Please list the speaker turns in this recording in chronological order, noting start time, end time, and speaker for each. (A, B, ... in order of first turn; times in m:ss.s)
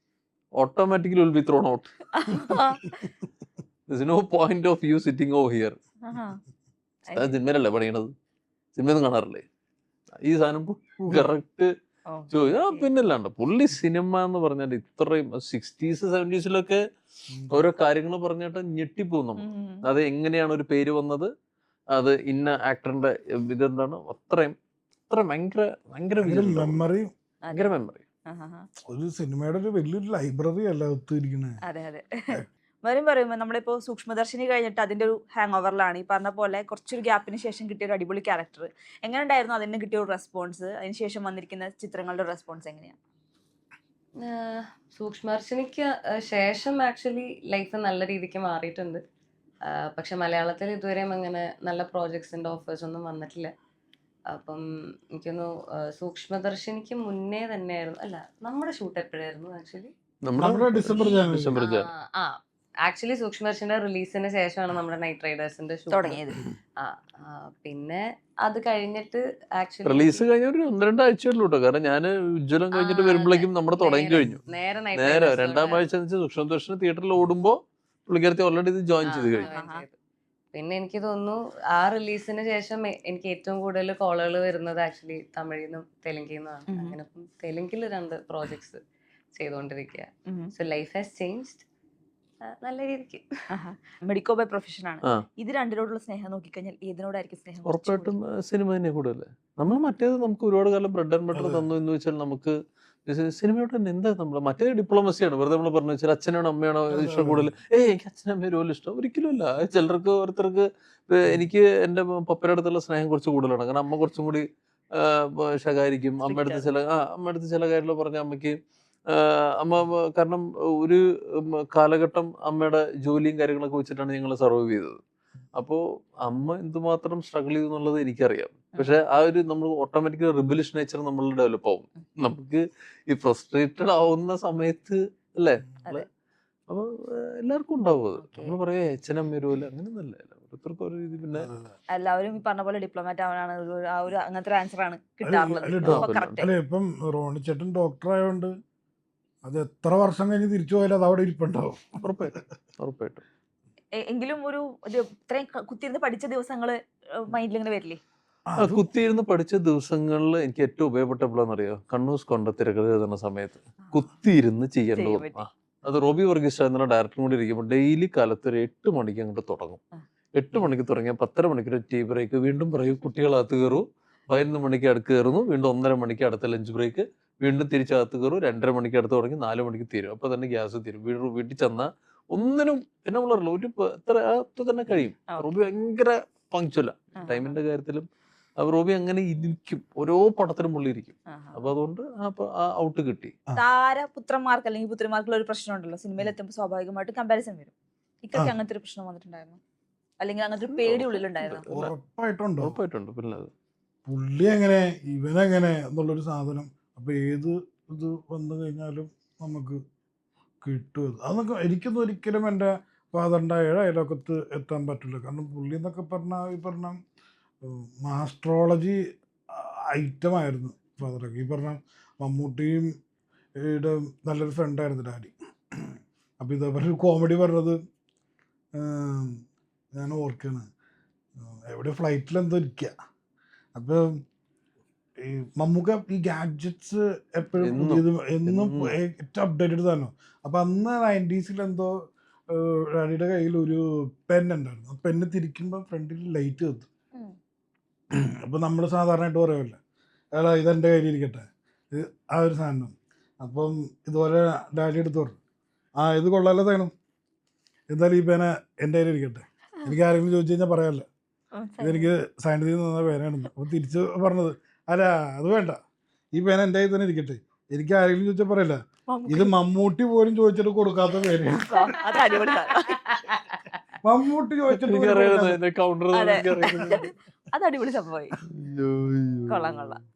0:00.6-0:01.9 A
0:02.2-0:03.1 B
0:03.9-0:05.8 A
0:06.1-0:06.4 B
0:07.1-0:07.4 B
0:07.2-0:08.1 A
0:08.8-0:09.4 A
0:10.2-0:11.7 A
0:11.0-0:11.3 C
0:12.1-0:12.9 B
0:12.3-0:16.8 A
0:17.3-0:17.6 C
0:17.5-0:21.3 A
0:19.4-0:19.8 B
0:22.0-0:24.6 A
0:25.1-0:26.8 A
0:26.2-0:27.1 C
0:27.4-0:27.7 B
0:27.5-0:28.0 A
0:28.3-0:28.7 B
0:28.9-0:31.6 C
0:31.7-0:43.0 B
0:44.2-0:49.0 D
0:49.9-0:53.5 D
0:54.3-0:59.9 D
1:00.2-1:01.9 A
1:00.4-1:01.5 C
1:01.0-1:06.3 D
1:05.9-1:06.4 B
1:06.8-1:10.3 D
1:09.8-1:14.4 A
1:12.7-1:15.9 D
1:15.0-1:19.5 A
1:19.1-1:20.0 D
1:19.4-1:19.8 B
1:20.5-1:28.8 D
1:29.3-1:31.6 D
1:32.5-1:33.2 D
1:33.5-1:38.2 B
1:37.6-1:58.6 A
1:41.3-1:41.7 C
1:46.9-1:47.5 C
1:56.2-1:56.7 B
1:59.1-2:05.0 A
2:05.6-2:16.1 A
2:16.7-2:21.5 A
2:18.2-2:18.6 B
2:21.9-2:26.5 B
2:25.2-2:28.5 C
2:25.8-2:26.5 A
2:29.4-2:32.0 C
2:32.0-2:33.2 A
2:34.0-2:38.0 B
2:38.5-2:38.8 C
2:38.6-2:49.8 A
2:45.0-2:45.4 B
2:50.4-3:08.0 A
3:07.2-3:07.6 B
3:08.6-3:13.3 A
3:11.3-3:11.6 B
3:13.6-3:19.6 B
3:20.2-3:21.7 B
3:20.7-3:21.9 A
3:21.7-3:22.8 C
3:22.6-3:23.5 A
3:24.1-3:29.8 C
3:30.6-3:37.0 C
3:37.6-3:39.0 C
3:39.5-3:42.9 C
3:43.6-3:47.8 C
3:48.8-3:49.4 C
3:49.9-3:50.7 C
3:51.4-3:52.9 C
3:53.8-3:54.2 C
3:55.2-4:01.9 C
3:57.6-3:58.9 A
4:02.5-4:06.9 C
4:08.5-4:09.8 C
4:10.4-4:15.4 C
4:16.0-4:16.9 C
4:17.9-4:21.1 C
4:21.6-4:22.1 B
4:21.8-4:25.8 C
4:26.4-4:32.2 C
4:29.1-4:29.5 B
4:31.7-4:33.0 B
4:32.9-4:33.8 D
4:34.0-4:35.6 C
4:34.7-4:37.1 A
4:36.1-4:38.3 B
4:38.5-4:39.9 A
4:39.5-4:40.0 B